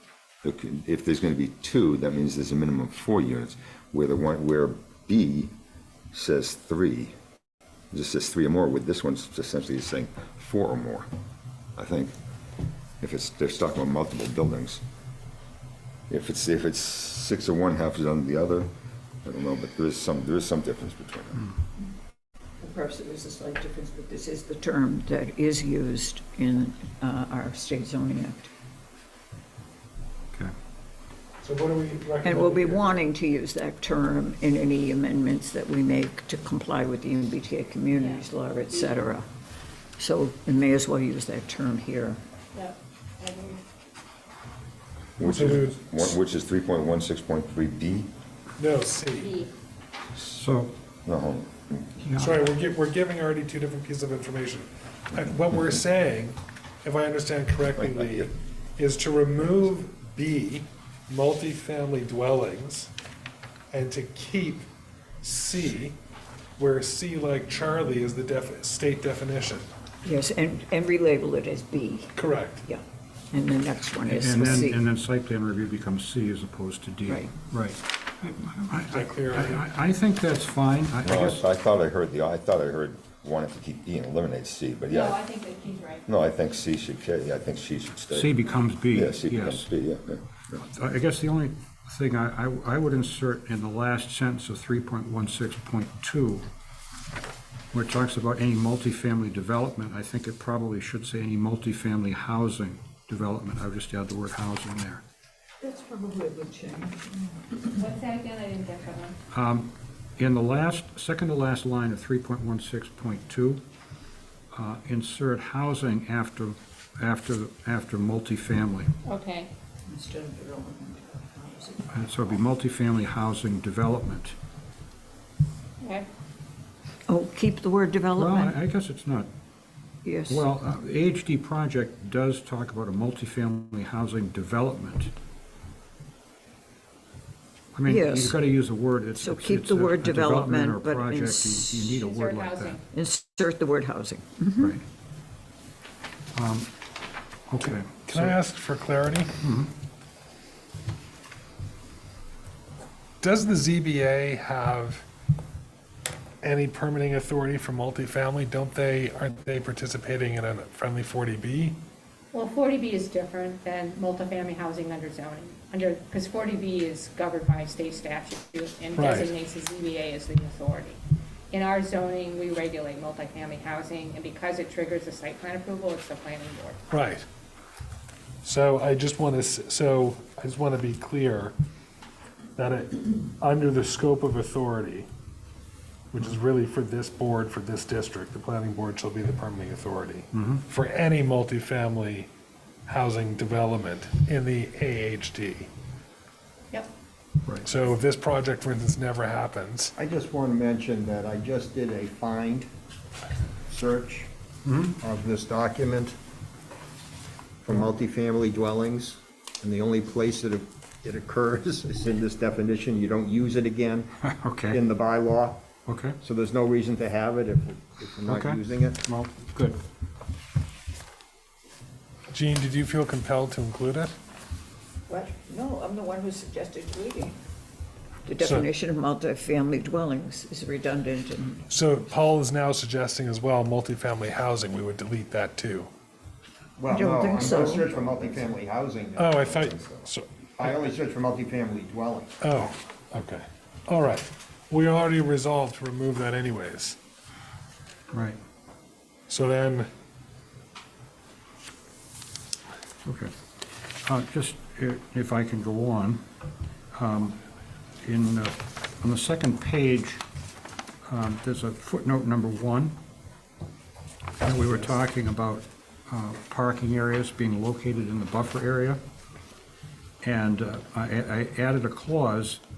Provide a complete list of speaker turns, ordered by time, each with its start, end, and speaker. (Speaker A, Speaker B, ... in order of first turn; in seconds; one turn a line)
Speaker A: 0.4-5.5
Speaker A: 6.1-7.2
Speaker A: 7.9-11.1
Speaker A: 11.8-12.2
Speaker A: 13.0-14.8
Speaker A: 16.1-18.7
Speaker A: 19.2-21.5
Speaker B: 22.6-28.5
Speaker C: 31.4-33.0
Speaker B: 32.2-39.3
Speaker D: 37.9-39.0
Speaker B: 40.0-42.2
Speaker D: 42.5-43.6
Speaker A: 45.2-48.1
Speaker C: 45.2-46.1
Speaker C: 48.6-49.4
Speaker D: 49.1-49.5
Speaker E: 50.2-50.7
Speaker A: 51.1-51.9
Speaker E: 52.0-52.4
Speaker C: 52.2-62.9
Speaker A: 57.8-58.3
Speaker C: 63.7-64.7
Speaker C: 65.2-66.0
Speaker C: 66.6-69.7
Speaker B: 70.0-74.8
Speaker C: 72.2-72.6
Speaker E: 74.1-81.5
Speaker B: 77.1-77.4
Speaker C: 78.9-79.6
Speaker A: 81.0-85.3
Speaker D: 84.9-86.0
Speaker A: 86.1-88.4
Speaker E: 88.1-89.7
Speaker A: 88.9-90.6
Speaker E: 90.6-96.5
Speaker E: 97.7-105.0
Speaker B: 105.6-107.8
Speaker D: 107.8-109.2
Speaker E: 109.3-113.6
Speaker E: 114.5-118.9
Speaker D: 119.0-119.5
Speaker B: 119.9-122.0
Speaker E: 121.9-124.3
Speaker D: 125.8-126.1
Speaker B: 127.1-128.6
Speaker E: 128.2-129.3
Speaker B: 130.0-130.5
Speaker E: 130.3-135.1
Speaker E: 137.8-142.8
Speaker B: 137.8-138.5
Speaker B: 139.2-142.0
Speaker D: 142.0-142.8
Speaker B: 142.9-144.8
Speaker E: 146.3-146.7
Speaker E: 147.5-148.3
Speaker C: 148.1-149.4
Speaker E: 149.4-149.7
Speaker C: 153.2-155.1
Speaker C: 156.4-161.8
Speaker D: 162.3-171.0
Speaker C: 169.0-169.3
Speaker D: 171.5-176.8
Speaker C: 176.9-177.3
Speaker C: 178.4-181.6
Speaker C: 182.6-185.1
Speaker C: 186.1-192.3
Speaker E: 190.3-190.7
Speaker C: 192.9-195.7
Speaker C: 197.7-199.9
Speaker F: 200.0-202.7
Speaker F: 203.7-204.3
Speaker E: 204.7-205.0
Speaker F: 205.0-206.2
Speaker F: 207.6-214.2
Speaker E: 214.3-214.8
Speaker F: 214.7-215.6
Speaker E: 215.9-216.2
Speaker F: 216.2-219.0
Speaker E: 218.3-219.8
Speaker C: 222.3-224.1
Speaker B: 225.1-227.4
Speaker B: 228.3-232.2
Speaker C: 228.4-228.7
Speaker C: 231.7-235.9
Speaker F: 236.8-239.7
Speaker B: 236.9-237.9
Speaker C: 239.2-240.7
Speaker A: 239.4-240.1
Speaker F: 240.6-242.4
Speaker C: 242.4-247.0
Speaker E: 248.1-248.4
Speaker C: 249.3-249.9
Speaker E: 253.0-256.2
Speaker E: 256.9-257.4
Speaker E: 258.0-260.2
Speaker E: 261.1-263.0
Speaker E: 264.4-269.0
Speaker E: 270.2-272.6